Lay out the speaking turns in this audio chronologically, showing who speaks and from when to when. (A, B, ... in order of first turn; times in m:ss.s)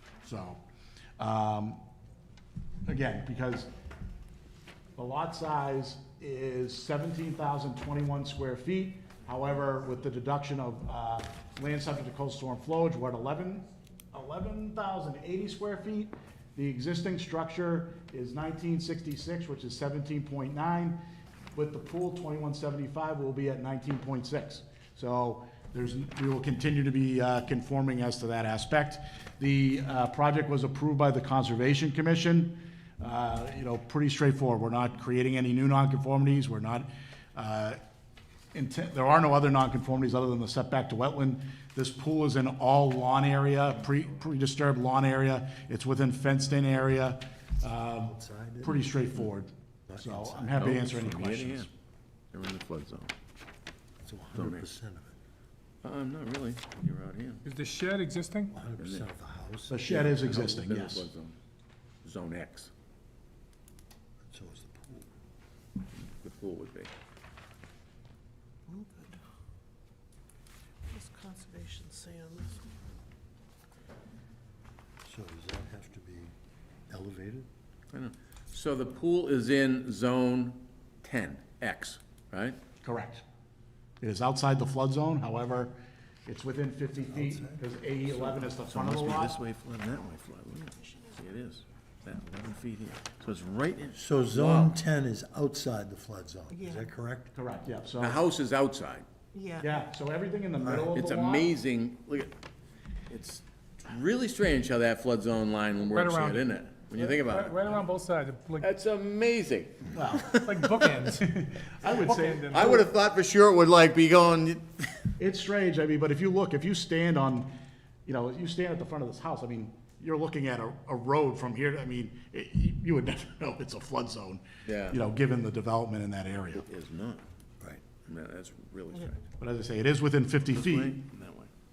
0:00.2-0:00.6 A
0:01.2-0:01.8 A
0:02.9-0:03.7 A
0:05.0-0:21.0 A
0:21.5-0:37.8 A
0:38.5-0:51.7 A
0:48.0-0:48.9 B
0:49.9-0:50.7 B
0:50.6-0:51.7 C
0:52.3-0:53.1 C
0:54.0-0:55.2 B
0:54.4-0:54.7 C
0:55.8-0:57.4 C
0:57.4-0:58.5 D
0:58.5-1:00.3 B
0:58.8-0:59.0 C
0:59.7-1:01.1 A
0:59.9-1:01.4 C
1:02.0-1:02.7 C
1:04.3-1:05.1 B
1:06.0-1:06.9 C
1:08.7-1:09.2 E
1:10.9-1:12.6 E
1:15.0-1:16.3 B
1:16.9-1:17.5 B
1:17.9-1:22.6 C
1:22.8-1:23.2 A
1:24.0-1:29.4 A
1:27.1-1:27.6 B
1:28.1-1:34.8 C
1:34.0-1:37.3 B
1:36.5-1:36.9 E
1:37.4-1:38.2 A
1:38.0-1:39.1 C
1:39.3-1:39.7 E
1:39.6-1:41.5 A
1:40.6-1:40.9 B
1:40.9-1:42.3 C
1:43.1-1:47.6 C
1:45.9-1:48.7 D
1:48.6-1:50.6 C
1:49.9-1:50.4 A
1:50.3-1:52.8 D
1:51.2-1:52.8 A
1:52.5-1:55.1 C
1:55.2-1:57.5 A
1:58.1-2:06.6 A
2:04.6-2:05.0 C
2:06.5-2:07.2 C
2:07.9-2:09.2 C
2:09.4-2:11.0 A
2:10.5-2:11.5 C